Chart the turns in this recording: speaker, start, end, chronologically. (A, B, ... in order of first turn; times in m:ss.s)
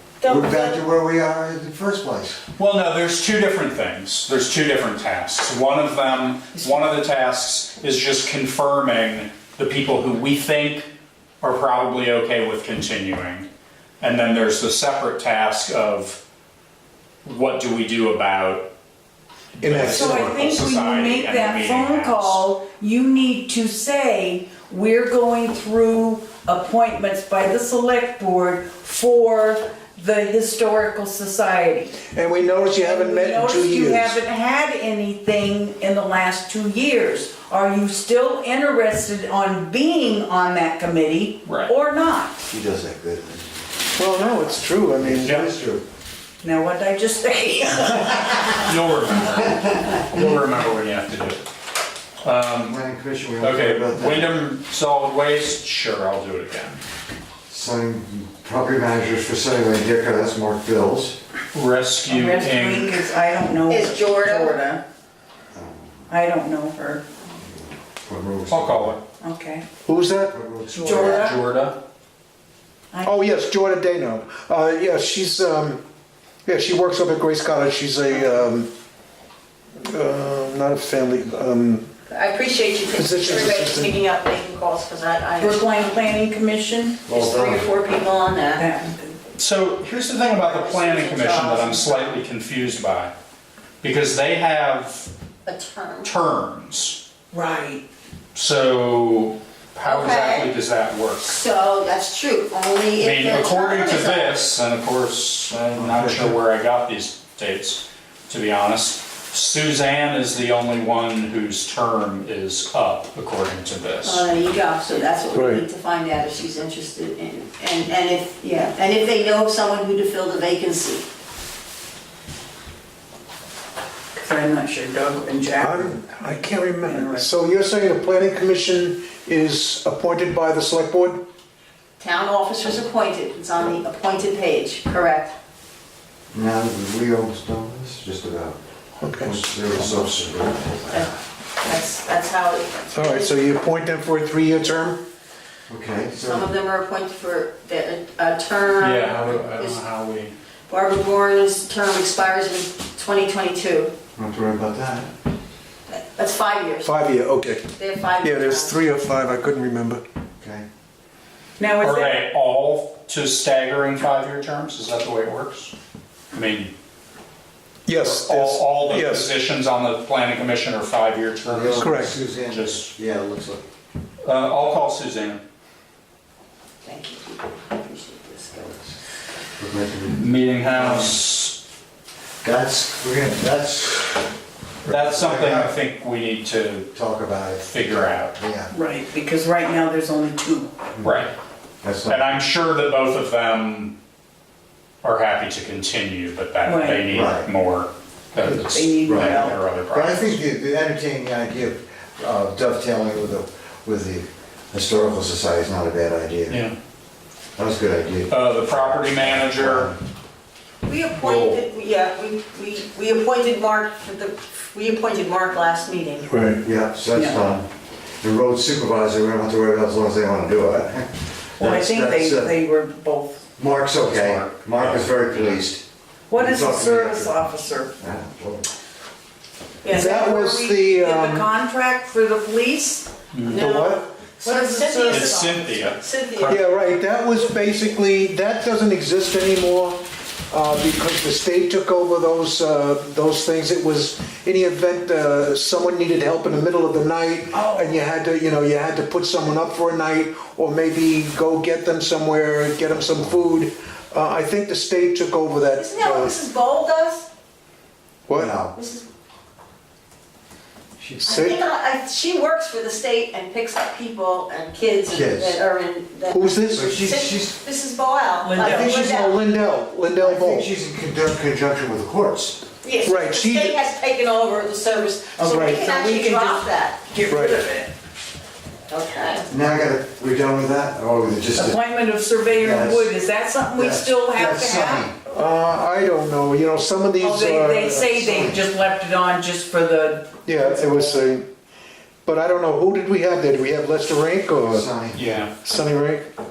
0:00.2-0:00.8 A
0:00.2-0:02.4 B
0:02.6-0:10.9 C
0:11.4-0:13.5 C
0:14.0-0:16.2 C
0:17.2-0:18.7 C
0:19.6-0:20.6 D
0:19.6-0:22.4 C
0:19.8-0:42.5 E
0:32.1-0:34.2 D
0:41.5-0:41.7 C
0:42.5-0:43.6 B
0:44.0-0:45.4 D
0:45.0-0:45.8 B
0:45.2-0:45.5 C
0:46.4-0:48.7 E
0:48.5-0:51.4 C
0:52.2-0:52.8 C
0:52.7-0:54.4 B
0:53.4-0:56.8 C
0:57.5-1:01.2 B
1:01.5-1:03.0 C
1:02.1-1:04.8 E
1:03.7-1:04.6 A
1:05.5-1:06.0 B
1:06.1-1:07.0 E
1:07.6-1:09.0 B
1:08.5-1:09.0 C
1:09.2-1:09.7 E
1:09.8-1:10.4 D
1:10.3-1:11.3 B
1:10.7-1:11.8 C
1:10.8-1:11.4 E
1:12.9-1:13.2 E
1:13.0-1:15.8 D
1:16.5-1:18.7 D
1:19.8-1:21.9 D
1:22.1-1:25.8 A
1:22.9-1:24.0 D
1:25.4-1:27.0 E
1:27.1-1:27.7 B
1:27.1-1:28.7 A
1:28.6-1:29.2 E
1:29.4-1:33.1 C
1:30.4-1:32.2 A
1:33.8-1:35.1 C
1:35.5-1:36.1 A
1:36.0-1:37.0 C
1:37.3-1:37.8 E
1:38.4-1:41.4 C
1:39.8-1:40.6 A
1:41.2-1:44.5 A
1:43.0-1:54.3 C
1:45.8-1:46.1 B
1:54.0-2:01.1 A
1:55.3-1:55.6 D
2:04.1-2:06.0 E
2:05.6-2:11.2 D
2:06.8-2:07.3 E
2:12.0-2:15.3 A
2:16.3-2:18.6 B
2:19.0-2:19.7 D
2:19.2-2:21.1 B
2:20.9-2:23.3 A
2:22.9-2:25.0 D
2:25.7-2:26.5 B
2:26.2-2:29.8 A
2:28.8-2:30.4 C
2:30.7-2:34.0 A
2:34.2-2:35.1 B
2:35.9-2:36.9 A
2:36.8-2:40.0 D
2:37.8-2:38.8 A
2:40.4-2:40.7 B
2:41.6-2:42.2 E
2:41.8-2:45.7 C
2:46.3-2:46.7 C
2:47.9-2:49.3 D
2:47.9-2:52.9 C
2:51.5-2:53.7 B
2:51.8-2:52.2 D
2:54.2-2:55.4 C
2:56.8-2:58.8 A
2:59.6-3:01.2 B
3:00.1-3:01.6 C
3:02.4-3:04.3 B
3:04.8-3:05.7 B
3:04.8-3:06.9 C
3:06.9-3:08.7 B
3:07.6-3:08.4 C
3:08.7-3:10.7 E
3:11.0-3:11.3 C
3:11.8-3:12.3 B
3:12.0-3:14.0 C
3:15.0-3:20.4 C
3:16.6-3:17.1 E
3:17.1-3:17.5 B
3:18.4-3:26.6 B
3:18.6-3:19.6 E
3:26.5-3:26.8 C
3:27.6-3:30.0 B
3:28.3-3:29.9 C
3:30.8-3:36.4 A
3:31.2-3:31.6 C
3:36.3-3:36.6 D
3:36.6-3:37.7 B
3:37.1-3:37.6 E
3:38.2-3:42.6 B
3:41.6-3:43.4 E
3:43.6-3:47.4 B
3:44.1-3:45.6 C
3:46.3-3:47.9 E
3:48.0-3:48.7 B
3:49.8-3:50.1 A
3:49.8-3:53.1 E
3:49.9-3:51.5 D
3:53.3-3:53.6 C
3:53.5-3:56.8 A
3:53.5-3:54.1 B
3:54.4-3:55.9 E
3:55.1-3:56.7 C
3:56.4-4:16.4 D
4:07.5-4:08.0 E
4:15.7-4:17.3 A
4:18.3-4:18.6 D
4:18.4-4:18.7 B
4:18.7-4:19.1 A
4:21.0-4:21.2 B
4:21.2-4:21.6 D
4:21.2-4:29.4 A
4:25.1-4:25.6 B
4:26.3-4:27.0 D
4:26.7-4:27.6 B
4:28.4-4:29.0 E
4:28.6-4:30.7 D
4:30.2-4:32.6 B
4:32.8-4:37.0 A
4:33.0-4:33.8 D
4:35.4-4:36.5 D
4:37.1-4:37.9 E
4:37.3-4:37.6 D
4:38.9-4:39.5 A
4:39.5-4:41.8 B
4:41.6-4:45.1 E
4:42.5-4:43.1 B
4:43.8-4:45.1 B
4:45.3-4:48.4 D
4:47.2-4:51.2 E
4:48.3-4:48.6 B
4:50.5-4:51.5 D
4:52.2-4:54.9 D
4:54.7-4:55.4 B
4:55.1-4:55.5 C
4:55.5-4:56.3 D